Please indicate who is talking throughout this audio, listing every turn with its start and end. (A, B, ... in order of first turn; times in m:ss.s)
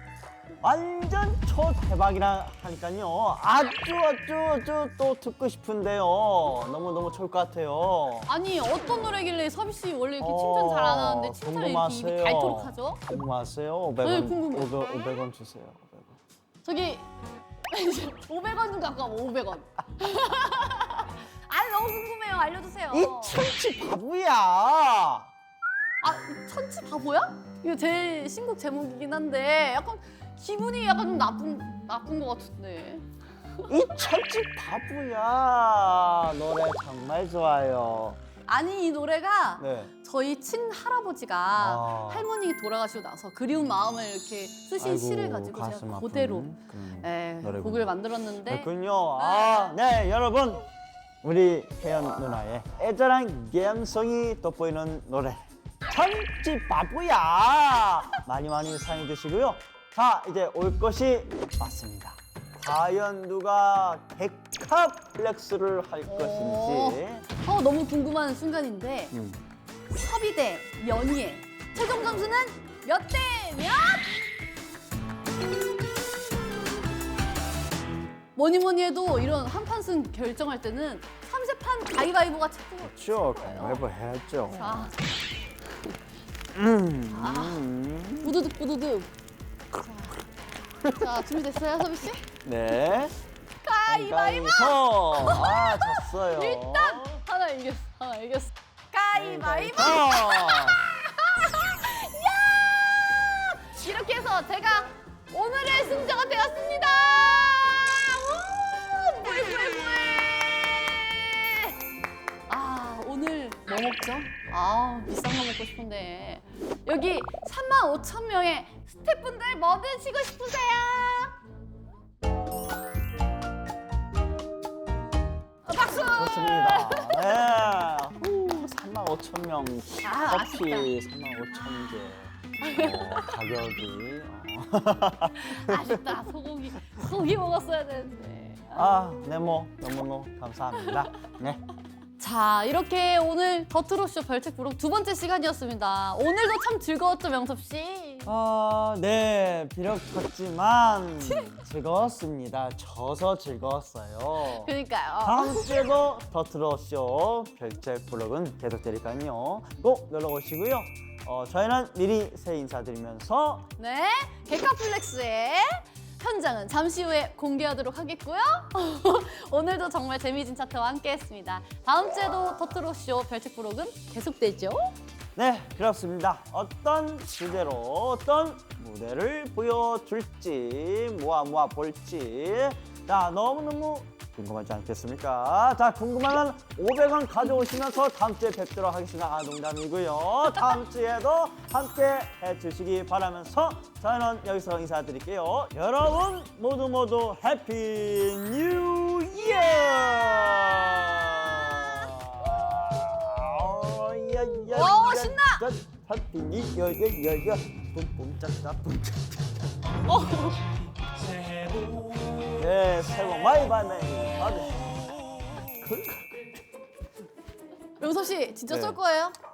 0:00.6-0:08.3 A
0:08.3-0:13.0 B
0:10.2-0:16.2 A
0:14.0-0:15.0 B
0:16.6-0:17.0 B
0:17.7-0:23.4 B
0:22.9-0:25.3 A
0:26.0-0:33.0 B
0:33.7-0:38.2 A
0:38.4-0:49.8 B
0:39.6-0:39.9 A
0:41.5-0:42.3 A
0:44.8-0:47.9 A
0:48.4-0:50.6 A
0:51.2-1:07.2 A
1:06.0-1:09.2 B
1:09.1-1:09.4 A
1:09.9-1:14.2 B
1:18.4-1:23.8 B
1:22.8-1:24.9 A
1:24.5-1:25.0 B
1:26.5-1:28.4 A
1:27.1-1:27.6 B
1:28.2-1:29.1 B
1:29.8-1:30.2 B
1:30.8-1:31.1 A
1:30.8-1:32.3 B
1:32.4-1:33.2 A
1:33.6-1:51.7 B
1:33.8-1:37.2 A
1:39.1-1:40.8 A
1:52.5-2:01.4 B
2:05.6-2:07.4 B
2:05.9-2:16.0 A
2:10.0-2:10.9 B
2:12.6-2:13.3 B
2:15.4-2:18.9 B
2:18.7-2:21.6 A
2:20.8-2:21.1 B
2:22.2-2:28.3 B
2:28.2-2:34.7 A
2:31.2-2:31.5 B
2:34.4-2:35.9 B
2:35.2-2:43.7 A
2:43.8-2:54.9 B
2:55.4-3:29.5 A
3:19.4-3:22.1 B
3:24.7-3:25.6 B
3:30.1-3:30.6 B
3:32.0-3:36.5 A
3:38.0-3:39.3 B
3:38.7-3:39.0 A